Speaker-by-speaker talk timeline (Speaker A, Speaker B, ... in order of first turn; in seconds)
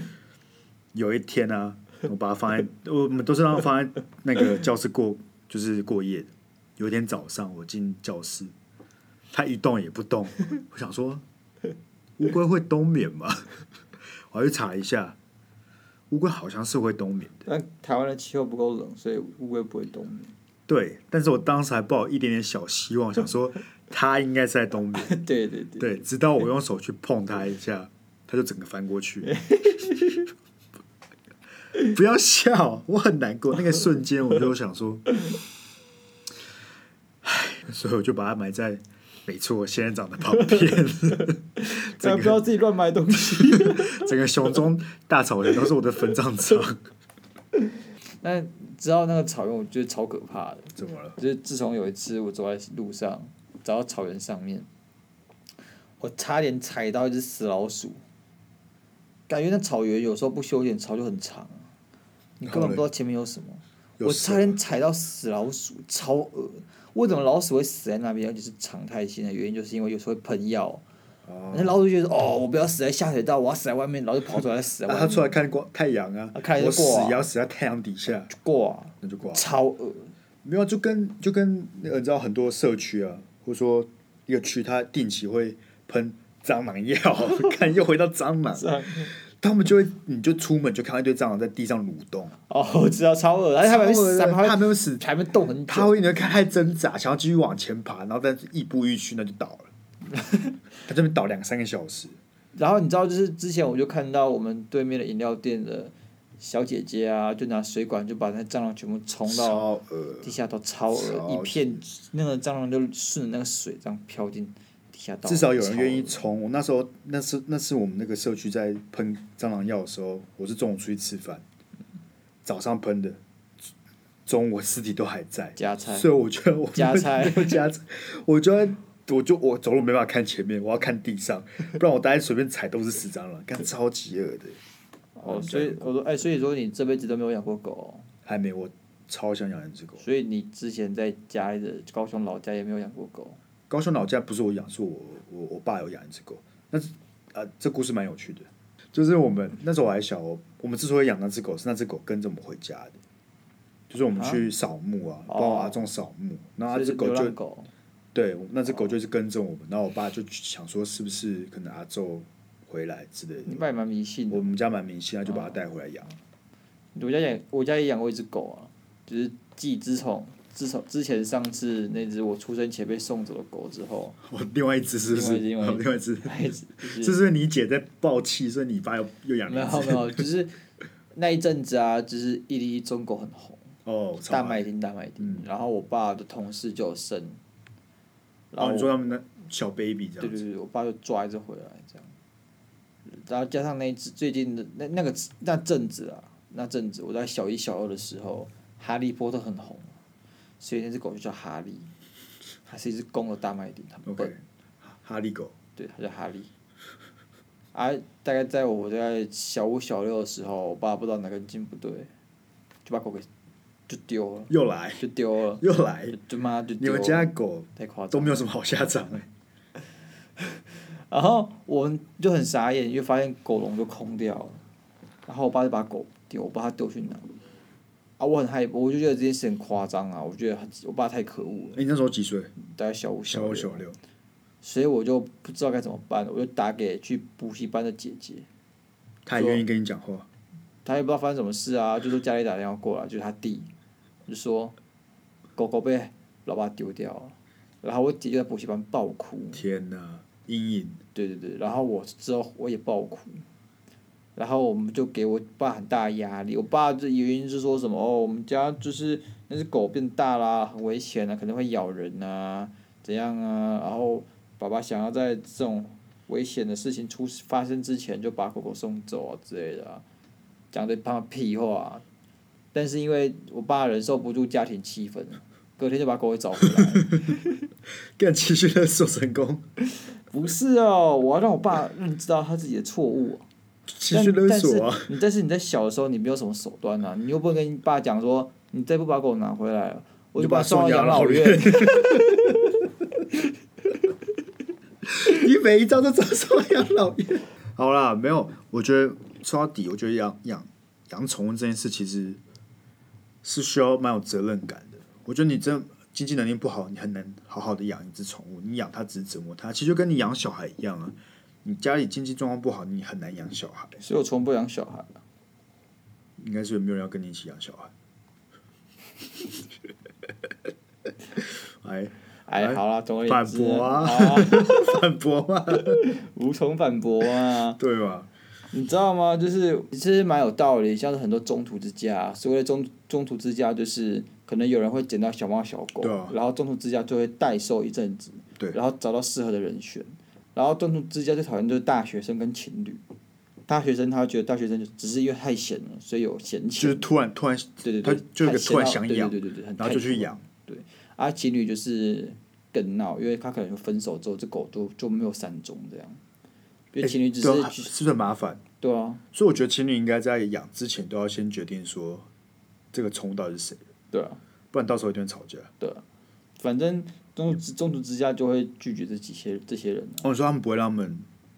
Speaker A: 0.9-8.5, 9.3-11.2, 12.2-13.4, 14.3-15.2, 16.1-17.5, 20.7-25.2, 25.8-29.4, 31.8-35.1, 37.2-42.4, 43.3-46.8, 50.8-51.2, 62.5-62.8, 64.0-64.6, 71.3-71.8, 74.9-78.3, 79.0-79.5, 80.4-92.4, 93.6-95.0, 95.7-99.7, 100.8-102.2, 109.3-110.3, 110.9-111.8, 115.3-121.4, 122.5-123.2, 124.3-134.6, 135.2-135.9, 138.3-140.0, 143.7-153.0, 153.9-157.3, 158.1-163.6, 164.3-166.1, 174.2-180.2, 183.9-184.7, 185.2-185.4, 188.6-190.4, 204.1-205.5, 214.5-215.1, 215.6-216.2, 216.8-219.3, 231.8-232.5, 233.3-234.0, 239.2-240.3, 249.5-251.0, 276.7-277.4, 278.2-279.6, 283.9-285.1, 290.4-292.7, 295.1-302.4, 303.4-314.0, 316.4-317.9, 321.4-326.0, 327.8-328.3, 336.0-336.4, 346.8-350.4, 357.0-358.6, 359.3-362.3, 362.9-363.8, 364.7-365.7, 370.2-371.3
Speaker B: 17.5-20.3, 25.0-25.9, 29.2-30.3, 41.6-44.1, 48.2-54.7, 56.0-58.0, 59.3-61.7, 62.4-70.8, 71.5-75.3, 76.3-77.3, 78.3-80.1, 88.5-89.1, 92.5-96.1, 102.5-109.7, 110.2-116.2, 125.6-126.1, 126.8-127.6, 135.2-138.1, 140.0-143.4, 154.2-154.4, 155.3-155.8, 156.7-157.7, 163.4-164.5, 165.3-165.6, 167.0-174.2, 175.1-177.2, 179.5-180.5, 181.1-183.6, 184.3-187.4, 188.5-189.0, 190.2-192.1, 193.1-200.0, 200.6-201.9, 202.7-204.3, 205.8-206.5, 207.7-212.1, 212.8-213.3, 213.9-218.4, 220.5-224.6, 225.3-227.3, 228.2-231.8, 232.6-233.8, 234.6-238.5, 239.3-239.6, 240.8-243.7, 244.3-244.8, 245.6-249.6, 251.2-253.4, 254.4-270.0, 270.7-272.0, 272.7-277.6, 280.3-283.5, 284.1-292.4, 314.0-315.2, 322.5-325.0, 325.9-327.8, 328.7-343.0, 343.7-347.0, 347.8-356.2, 356.9-357.9, 358.8-359.2, 364.1-364.4, 366.6-370.3